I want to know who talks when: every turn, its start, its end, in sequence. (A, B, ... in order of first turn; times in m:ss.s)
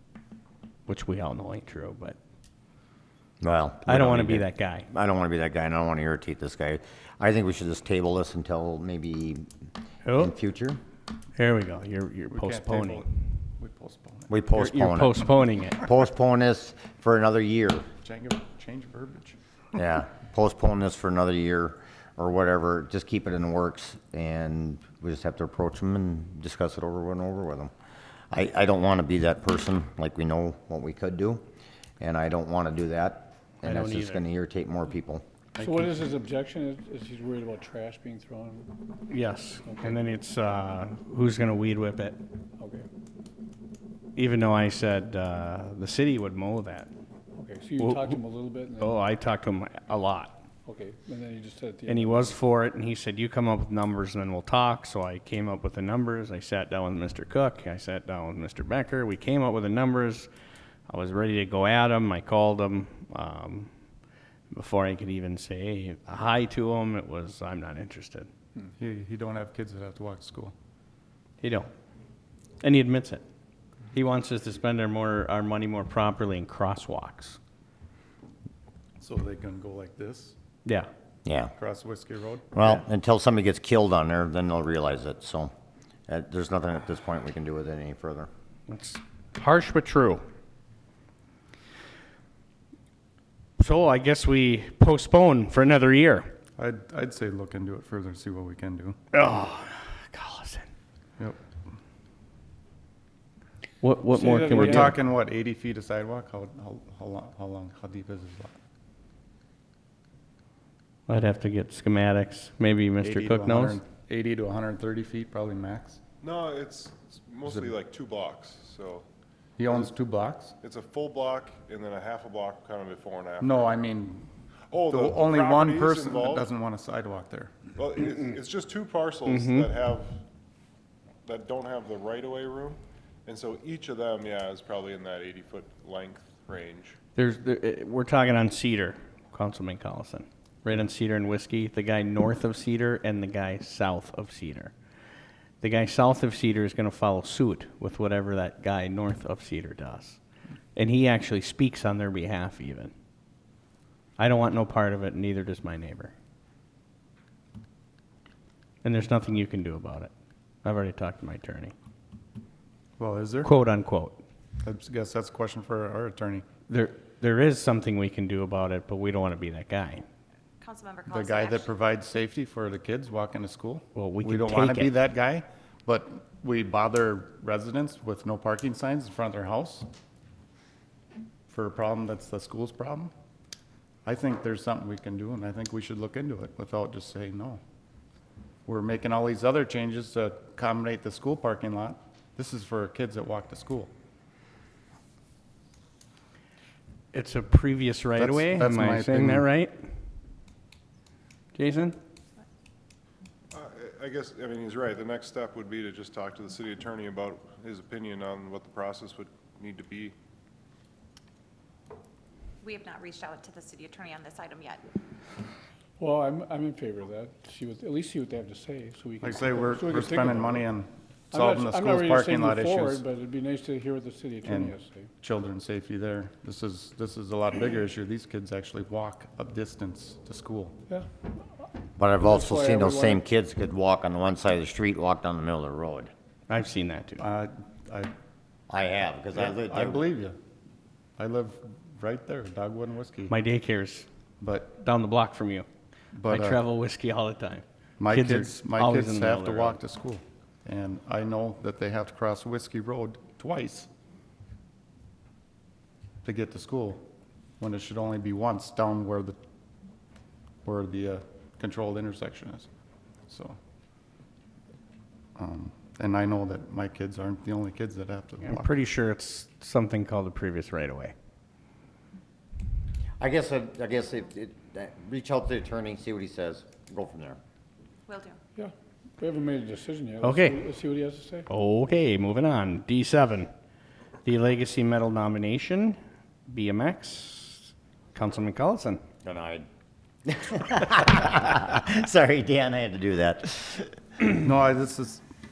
0:00.9-0:02.2 A
0:03.4-0:09.5 B
0:03.8-0:04.9 A
0:10.0-0:10.3 A
0:10.1-0:10.8 B
0:11.4-0:13.0 A
0:12.3-0:13.1 C
0:13.6-0:14.3 C
0:14.3-0:15.1 B
0:14.5-0:15.9 A
0:15.8-0:17.9 B
0:18.0-0:19.4 C
0:19.7-0:27.7 B
0:28.3-0:31.4 B
0:32.0-0:35.2 B
0:33.6-0:34.2 A
0:35.6-0:38.7 D
0:35.6-0:35.9 C
0:39.1-0:42.2 A
0:39.6-0:40.0 D
0:42.6-0:42.8 D
0:44.2-0:46.9 A
0:47.4-0:49.0 D
0:47.8-0:48.2 A
0:48.8-0:50.4 A
0:50.6-0:52.4 D
0:51.9-1:00.3 A
1:00.9-1:03.7 A
1:04.5-1:08.3 A
1:08.8-1:10.5 C
1:11.4-1:11.7 A
1:12.6-1:13.2 A
1:13.9-1:17.4 A
1:19.0-1:20.4 C
1:21.2-1:21.5 B
1:21.6-1:22.5 C
1:22.5-1:25.5 B
1:26.1-1:28.3 B
1:28.7-1:30.2 A
1:33.6-1:36.3 A
1:36.6-1:39.0 C
1:39.1-1:40.6 A
1:43.8-1:45.0 A
1:44.2-1:44.9 D
1:44.2-1:48.6 C
1:51.1-1:53.8 A
1:53.0-1:56.0 C
1:56.2-1:59.0 E
1:57.4-1:57.7 C
1:59.6-2:00.6 C
2:00.6-2:03.7 E
2:03.4-2:04.3 C
2:04.7-2:06.5 E
2:04.9-2:07.6 C
2:07.8-2:10.2 E
2:09.2-2:09.7 A
2:11.2-2:17.0 E
2:17.1-2:24.7 A
2:25.6-2:30.2 A
2:30.7-2:32.9 A
2:34.2-2:36.1 A
2:38.8-2:40.1 A
2:40.6-2:41.7 A
2:43.0-2:43.5 C
2:43.4-2:44.2 A
2:44.6-2:46.4 C
2:46.7-2:50.0 A
2:50.6-2:51.7 F
2:51.1-2:59.9 C
2:53.9-2:54.9 A
3:01.5-3:03.1 C
3:04.0-3:07.6 C
3:08.6-3:13.9 C
3:17.1-3:19.8 A
3:18.1-3:19.5 C
3:21.5-3:22.0 A
3:23.5-3:30.1 E
3:32.6-3:34.8 F
3:36.0-3:40.6 D
3:39.2-3:43.0 C
3:41.3-3:45.1 D
3:44.4-3:50.7 C
3:52.0-3:56.1 B
3:52.2-3:53.2 D
3:56.5-3:57.2 A
3:57.2-3:58.1 C
3:58.7-4:00.0 B
3:59.4-4:00.4 C
4:01.2-4:03.3 C
4:03.3-4:04.1 A
4:04.4-4:04.7 C
4:04.7-4:05.6 A
4:06.1-4:06.6 C
4:06.3-4:09.8 A
4:08.0-4:13.9 C
4:16.2-4:17.0 C
4:17.6-4:19.4 C
4:20.6-4:22.7 C
4:23.3-4:23.6 C
4:25.4-4:28.7 C
4:28.4-4:31.1 A
4:33.2-4:37.4 B
4:38.1-4:38.4 F
4:38.6-4:41.5 D
4:40.2-4:40.6 A
4:41.5-4:43.5 A
4:44.2-4:49.0 A
4:49.2-4:49.6 B
4:50.2-4:53.9 B
4:54.4-4:55.2 C